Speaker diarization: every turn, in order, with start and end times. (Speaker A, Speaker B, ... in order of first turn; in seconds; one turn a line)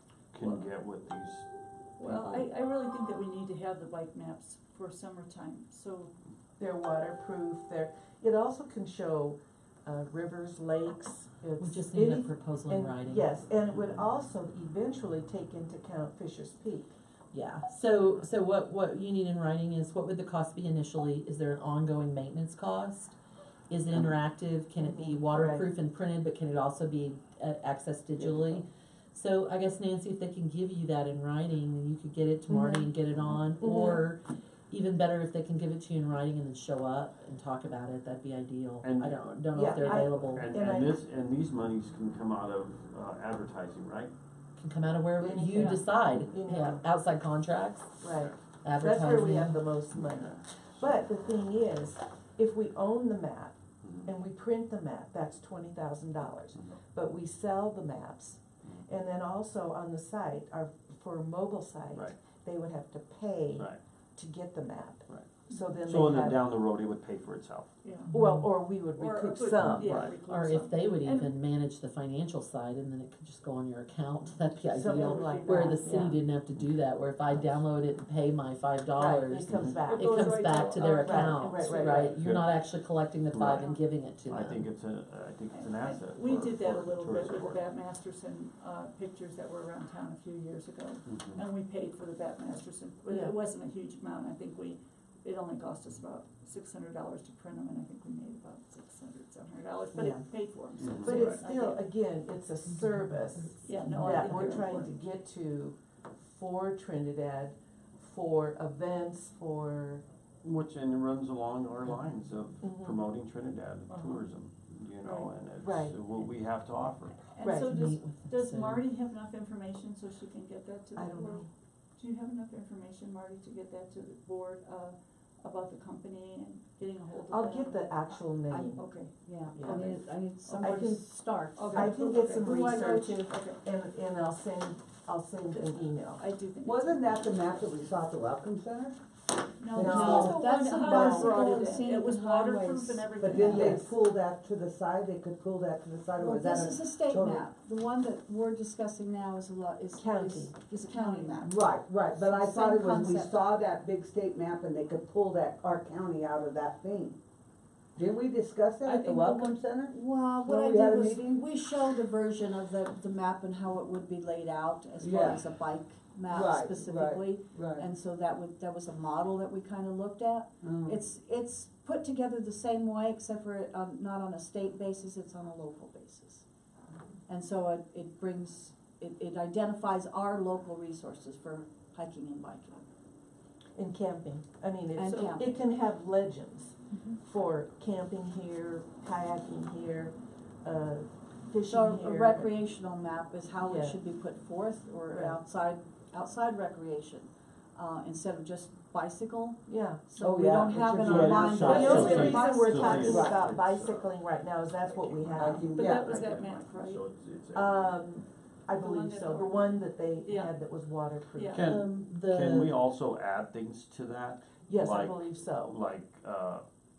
Speaker A: 0.3-1.4
Speaker B: 2.0-6.1
Speaker A: 2.0-2.4
Speaker C: 6.6-16.9
Speaker D: 11.6-13.3
Speaker D: 17.3-23.1
Speaker D: 23.7-40.5
Speaker C: 24.8-25.7
Speaker C: 32.5-32.9
Speaker C: 33.6-34.0
Speaker A: 38.8-44.1
Speaker C: 39.5-41.0
Speaker D: 44.6-48.0
Speaker C: 45.2-46.8
Speaker B: 45.5-45.8
Speaker C: 48.0-66.4
Speaker D: 48.6-49.7
Speaker A: 49.9-50.9
Speaker A: 53.8-54.1
Speaker A: 56.5-56.8
Speaker A: 61.9-62.2
Speaker A: 63.5-63.8
Speaker A: 65.1-67.8
Speaker B: 67.8-68.1
Speaker D: 68.1-68.6
Speaker C: 68.1-70.1
Speaker B: 68.9-71.3
Speaker A: 69.6-70.2
Speaker D: 70.1-84.7
Speaker C: 74.7-76.2
Speaker B: 74.8-76.2
Speaker A: 76.5-77.6
Speaker C: 79.0-82.2
Speaker B: 79.9-82.1
Speaker A: 82.0-82.6
Speaker A: 83.3-87.6
Speaker B: 83.5-83.8
Speaker B: 85.5-101.8
Speaker A: 91.0-91.4
Speaker C: 93.1-93.3
Speaker C: 99.9-100.2
Speaker A: 100.8-101.4
Speaker C: 101.0-110.0
Speaker B: 103.6-104.9
Speaker D: 104.0-104.3
Speaker A: 110.4-117.3
Speaker C: 112.6-113.1
Speaker B: 113.9-114.2
Speaker B: 115.0-115.3
Speaker C: 115.6-116.0
Speaker B: 117.3-130.0
Speaker C: 117.4-117.7
Speaker D: 117.5-118.8
Speaker C: 120.9-121.5
Speaker C: 127.3-128.8
Speaker E: 129.2-133.2
Speaker C: 130.5-131.0
Speaker B: 130.6-130.9
Speaker B: 131.5-133.6
Speaker C: 131.7-136.2
Speaker B: 135.6-137.7
Speaker F: 136.6-139.0
Speaker B: 139.6-143.8
Speaker F: 139.7-140.4
Speaker E: 139.8-143.1
Speaker C: 139.8-141.4
Speaker F: 143.2-147.5
Speaker C: 143.3-143.9
Speaker E: 146.2-151.6
Speaker C: 150.0-150.5
Speaker B: 150.7-151.5
Speaker F: 151.4-157.2
Speaker E: 152.1-153.5
Speaker F: 157.9-161.4
Speaker B: 158.8-159.6
Speaker E: 159.9-176.4
Speaker F: 165.0-165.4
Speaker F: 166.3-167.9
Speaker F: 170.6-171.0
Speaker E: 177.3-182.8
Speaker C: 183.7-192.5
Speaker E: 184.9-185.6
Speaker E: 186.9-187.2
Speaker E: 191.7-203.3
Speaker C: 193.6-194.0
Speaker C: 195.1-195.4
Speaker C: 199.7-200.1
Speaker F: 200.2-202.3
Speaker A: 201.0-204.1
Speaker C: 201.1-205.8
Speaker B: 201.8-202.6
Speaker F: 202.9-203.5
Speaker A: 205.0-208.0
Speaker F: 205.3-206.2
Speaker B: 205.7-207.0
Speaker C: 207.5-211.7
Speaker B: 208.7-210.5
Speaker B: 211.3-211.7
Speaker A: 211.5-216.6
Speaker D: 211.6-212.8
Speaker C: 214.6-215.8